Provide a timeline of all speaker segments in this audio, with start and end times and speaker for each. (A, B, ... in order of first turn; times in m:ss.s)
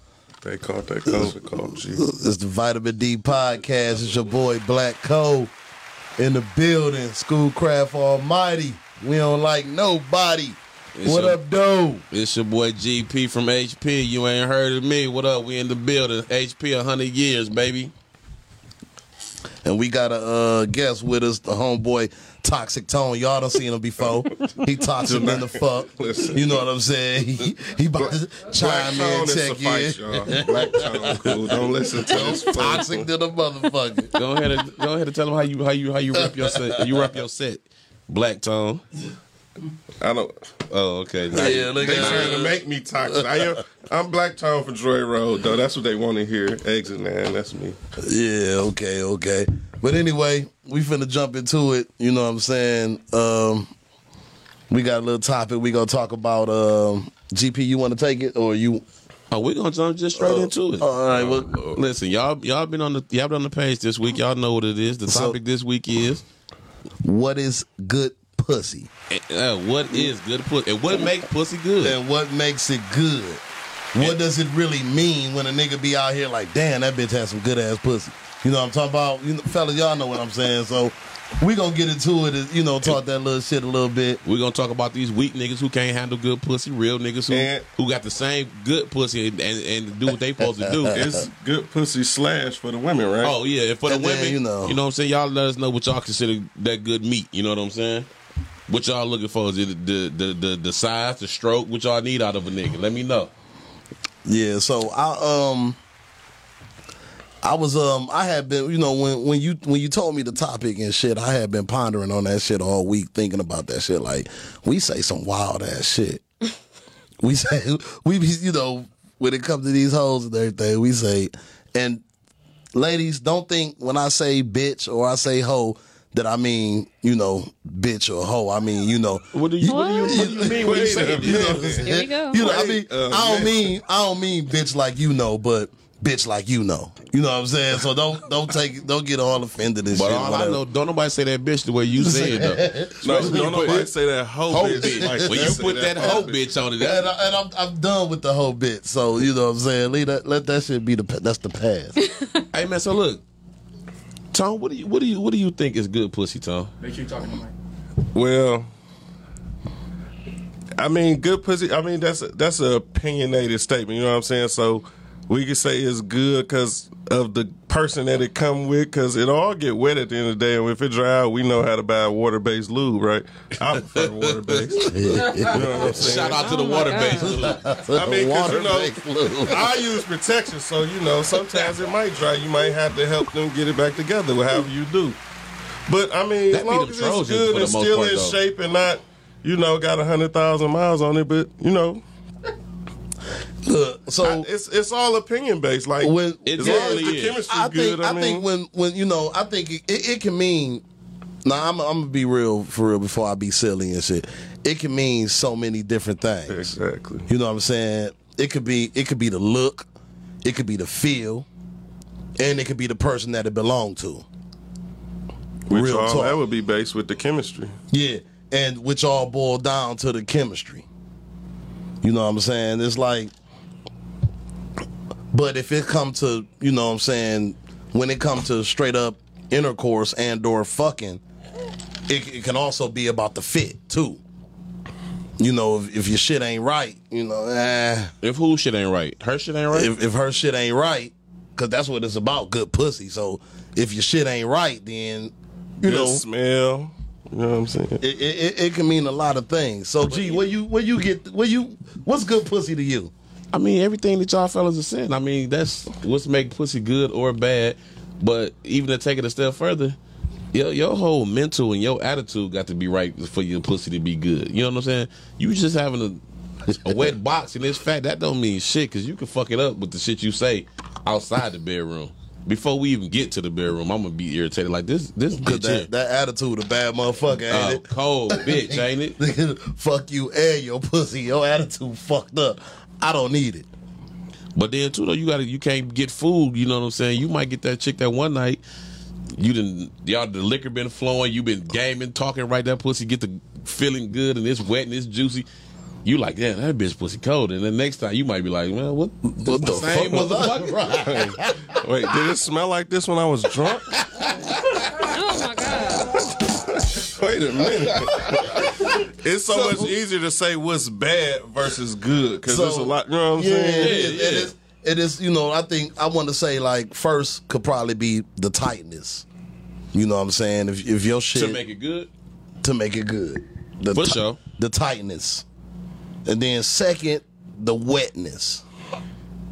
0:00.4-0:02.0 A
0:01.1-0:01.4 B
0:01.9-0:05.5 B
0:06.2-0:12.0 B
0:11.0-0:11.4 C
0:12.1-0:17.9 C
0:19.6-0:34.1 B
0:25.0-0:26.6 A
0:28.0-0:33.1 A
0:34.1-0:38.8 C
0:36.1-0:37.0 B
0:40.0-0:40.3 A
0:40.7-0:42.5 C
0:41.3-0:47.8 A
0:41.3-0:43.5 B
0:48.0-0:53.7 B
0:54.7-0:58.8 B
0:59.3-1:06.2 C
1:00.2-1:01.6 B
1:05.1-1:05.4 B
1:07.0-1:08.9 B
1:09.1-1:12.0 C
1:11.8-1:13.4 B
1:13.9-1:24.2 B
1:24.2-1:31.1 C
1:27.3-1:27.7 A
1:30.4-1:31.3 B
1:30.9-1:33.4 A
1:33.2-1:38.1 C
1:33.9-1:34.8 B
1:38.7-1:43.3 C
1:44.2-1:45.8 B
1:47.4-1:56.2 B
1:57.2-2:02.0 B
2:02.7-2:20.6 B
2:09.3-2:11.6 C
2:09.7-2:10.2 D
2:10.5-2:13.7 A
2:11.6-2:12.4 D
2:19.9-2:23.9 C
2:22.0-2:23.9 B
2:23.0-2:26.4 A
2:24.5-2:27.1 C
2:24.8-2:32.0 B
2:32.0-2:32.3 D
2:32.5-2:33.2 C
2:34.3-2:36.7 C
2:36.8-2:37.5 E
2:38.1-2:38.7 A
2:40.8-2:54.9 A
2:53.7-2:55.1 C
2:54.8-2:56.2 B
2:55.2-2:56.0 E
2:55.5-2:56.5 A
2:55.8-2:57.6 C
2:56.4-2:57.3 D
2:56.6-2:57.0 E
2:57.2-2:59.8 B
2:57.9-3:05.2 A
3:05.9-3:12.0 A
3:06.5-3:08.4 C
3:13.6-3:14.5 B
3:14.2-3:18.5 A
3:16.0-3:20.8 B
3:16.5-3:17.4 C
3:21.4-3:26.7 B
3:26.5-3:27.3 A
3:27.3-3:29.9 B
3:30.4-3:31.5 B
3:32.4-3:34.2 B
3:35.7-3:37.7 A
3:35.7-3:36.4 B
3:37.9-3:40.9 B
3:42.0-3:43.3 B
3:45.3-3:51.2 B
3:52.1-3:54.2 B
3:55.4-3:58.1 B
3:58.2-3:59.9 C
3:59.7-4:06.2 B
4:05.8-4:08.0 A
4:08.0-4:13.1 B
4:10.1-4:10.4 C
4:13.5-4:20.0 C
4:20.5-4:26.2 C
4:26.7-4:35.9 C
4:35.4-4:43.7 B
4:37.5-4:39.2 C
4:44.6-4:48.6 C
4:49.4-4:55.5 C
4:56.0-5:00.8 C
4:59.4-5:01.7 B
5:01.0-5:04.0 A
5:04.0-5:04.8 C
5:05.1-5:06.1 D
5:06.2-5:14.1 A
5:07.6-5:08.8 B
5:09.5-5:09.9 B
5:12.5-5:19.3 B
5:13.8-5:14.5 C
5:19.9-5:21.6 B
5:21.3-5:22.1 C
5:22.6-5:25.4 B
5:23.9-5:24.4 C
5:26.2-5:28.6 B